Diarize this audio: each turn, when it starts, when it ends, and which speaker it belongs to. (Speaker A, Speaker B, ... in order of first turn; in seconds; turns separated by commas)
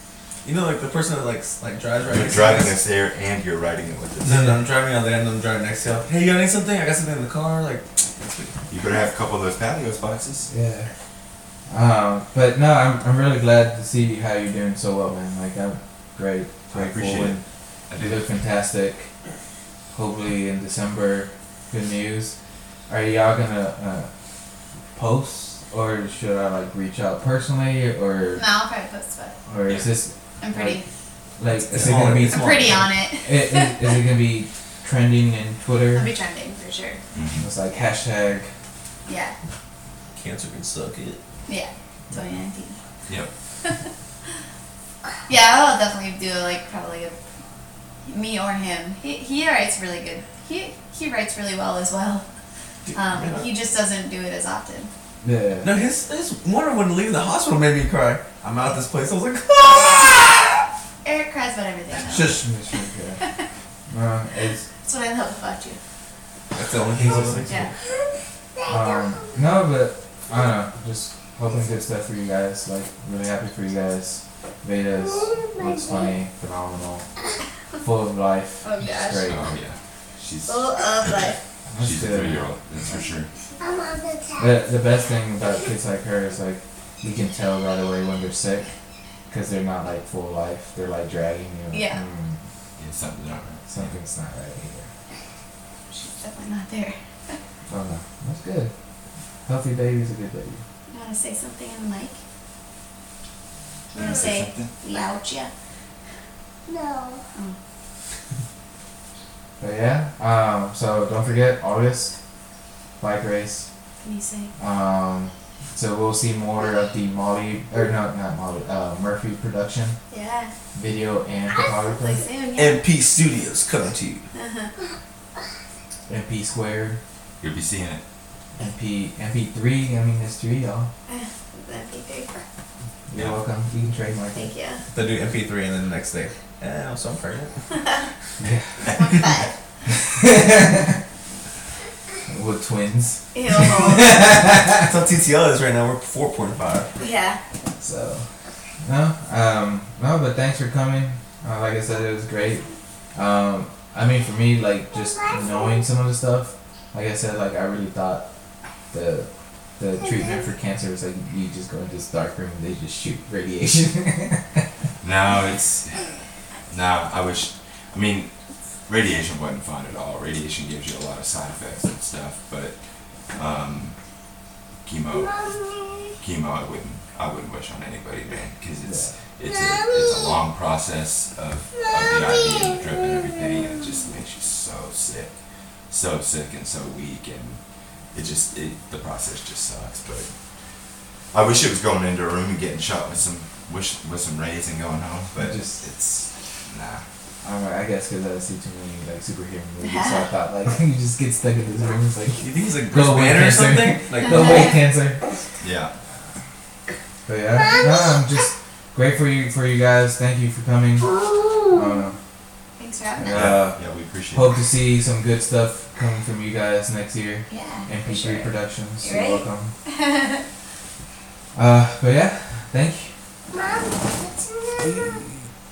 Speaker A: 0.4-2.8, Speaker B: 2.0-4.5, Speaker A: 4.2-8.6, Speaker B: 8.7-10.5, Speaker C: 10.5-10.9, Speaker C: 11.7-17.4, Speaker B: 16.7-18.2, Speaker C: 17.9-19.1, Speaker C: 19.9-22.3, Speaker C: 22.9-24.1, Speaker C: 24.9-28.4, Speaker D: 28.3-29.4, Speaker C: 29.4-30.8, Speaker D: 30.4-30.8, Speaker C: 31.4-36.1, Speaker A: 31.7-32.9, Speaker D: 32.2-33.8, Speaker D: 35.9-37.0, Speaker B: 37.1-37.5, Speaker C: 37.4-38.5, Speaker D: 39.0-39.3, Speaker A: 40.1-41.2, Speaker D: 41.5-42.8, Speaker D: 43.6-43.9, Speaker D: 45.3-47.2, Speaker D: 48.0-52.2, Speaker A: 52.9-53.5, Speaker D: 52.9-54.9, Speaker C: 55.2-55.7, Speaker A: 55.6-60.4, Speaker D: 61.0-62.4, Speaker A: 62.0-62.3, Speaker C: 62.0-63.2, Speaker C: 63.9-64.7, Speaker D: 64.8-65.8, Speaker A: 66.5-67.7, Speaker C: 67.0-67.7, Speaker E: 68.5-69.2, Speaker C: 68.7-77.0, Speaker E: 75.0-76.2, Speaker C: 77.8-79.5, Speaker D: 78.6-79.3, Speaker B: 79.2-83.3, Speaker D: 80.5-81.4, Speaker C: 81.7-82.5, Speaker E: 83.6-84.6, Speaker C: 84.4-88.7, Speaker C: 89.3-92.4, Speaker D: 91.7-92.0, Speaker B: 92.8-94.0, Speaker C: 93.7-94.9, Speaker D: 95.9-97.4, Speaker C: 97.7-98.7, Speaker C: 99.5-100.6, Speaker D: 100.9-102.2, Speaker D: 103.9-105.5, Speaker B: 103.9-104.7, Speaker E: 106.7-107.2, Speaker C: 109.6-112.1, Speaker C: 113.0-113.7, Speaker D: 114.0-114.5, Speaker C: 114.6-120.0, Speaker D: 120.1-120.5, Speaker C: 120.7-122.2, Speaker D: 121.9-122.8, Speaker A: 122.5-124.3, Speaker D: 124.3-124.7, Speaker C: 126.1-127.0, Speaker B: 127.4-128.0, Speaker C: 128.6-130.9, Speaker D: 131.1-132.3, Speaker C: 133.1-134.5, Speaker D: 134.3-134.8, Speaker A: 134.9-137.6, Speaker C: 138.4-138.9, Speaker D: 138.9-139.5, Speaker C: 139.9-141.0, Speaker C: 142.3-144.9, Speaker D: 143.3-144.2, Speaker A: 144.7-146.9, Speaker D: 147.0-147.4, Speaker C: 147.8-148.3, Speaker C: 148.8-158.2, Speaker E: 155.2-155.8, Speaker C: 158.9-164.6, Speaker B: 165.0-166.2, Speaker B: 166.7-168.3, Speaker B: 168.9-172.8, Speaker B: 173.3-173.9, Speaker B: 174.8-175.4, Speaker E: 175.1-176.2, Speaker B: 176.2-185.3, Speaker C: 178.8-179.1, Speaker E: 179.4-180.4, Speaker E: 181.8-184.1, Speaker B: 185.9-187.6, Speaker B: 188.1-190.3, Speaker B: 191.3-197.0, Speaker C: 195.3-195.8, Speaker C: 197.4-205.4, Speaker D: 199.8-200.2, Speaker A: 202.4-204.7, Speaker D: 204.2-204.8, Speaker B: 205.6-205.9, Speaker C: 207.2-211.1, Speaker E: 207.6-208.2, Speaker E: 211.0-211.9, Speaker C: 211.7-212.2, Speaker D: 212.8-213.4, Speaker C: 213.2-219.7, Speaker B: 213.3-214.5, Speaker D: 217.5-220.4, Speaker C: 221.5-223.1, Speaker E: 223.5-225.2, Speaker C: 224.8-225.5